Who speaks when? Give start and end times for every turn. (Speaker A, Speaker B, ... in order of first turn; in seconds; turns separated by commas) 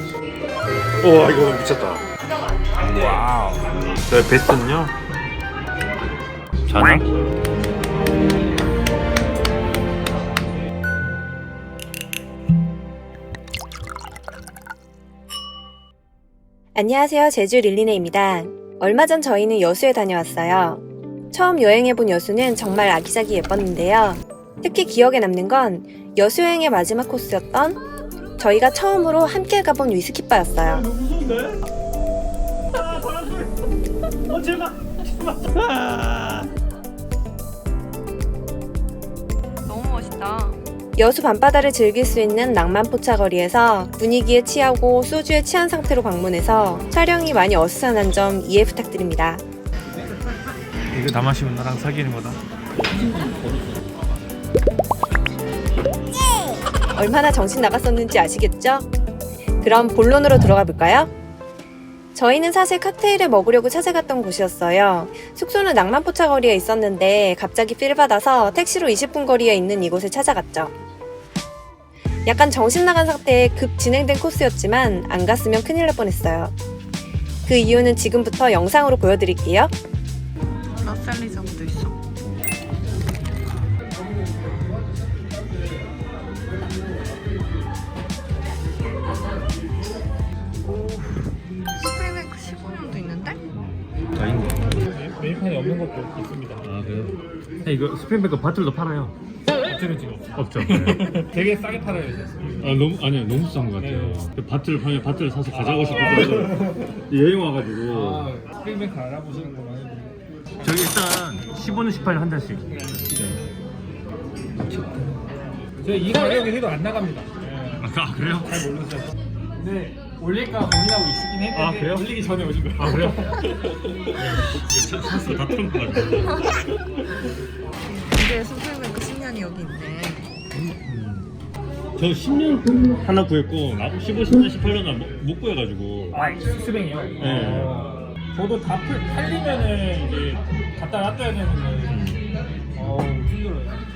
Speaker A: 1.0-2.0, Speaker A: 2.9-3.5, Speaker A: 4.0-4.9, Speaker A: 6.7-7.1, Speaker B: 16.7-27.8, Speaker B: 28.4-30.8, Speaker A: 30.7-31.6, Speaker A: 32.7-33.5, Speaker A: 34.3-36.5, Speaker C: 39.6-40.6, Speaker B: 41.0-49.4, Speaker A: 50.9-53.3, Speaker B: 56.9-58.9, Speaker B: 59.6-61.1, Speaker B: 62.1-70.7, Speaker B: 72.2-76.5, Speaker B: 77.5-79.7, Speaker C: 80.7-82.0, Speaker C: 90.6-93.4, Speaker A: 93.5-94.8, Speaker D: 94.8-96.7, Speaker A: 96.6-99.1, Speaker D: 99.6-102.7, Speaker A: 100.3-101.1, Speaker A: 102.6-108.3, Speaker D: 103.8-104.2, Speaker D: 107.9-110.2, Speaker A: 110.6-113.4, Speaker A: 114.7-114.9, Speaker D: 115.8-123.5, Speaker A: 117.8-118.7, Speaker A: 121.5-123.1, Speaker A: 124.2-126.5, Speaker C: 127.9-130.3, Speaker A: 130.5-131.3, Speaker A: 132.0-136.2, Speaker D: 136.1-142.1, Speaker A: 137.2-137.8, Speaker A: 141.9-142.2, Speaker D: 142.8-143.8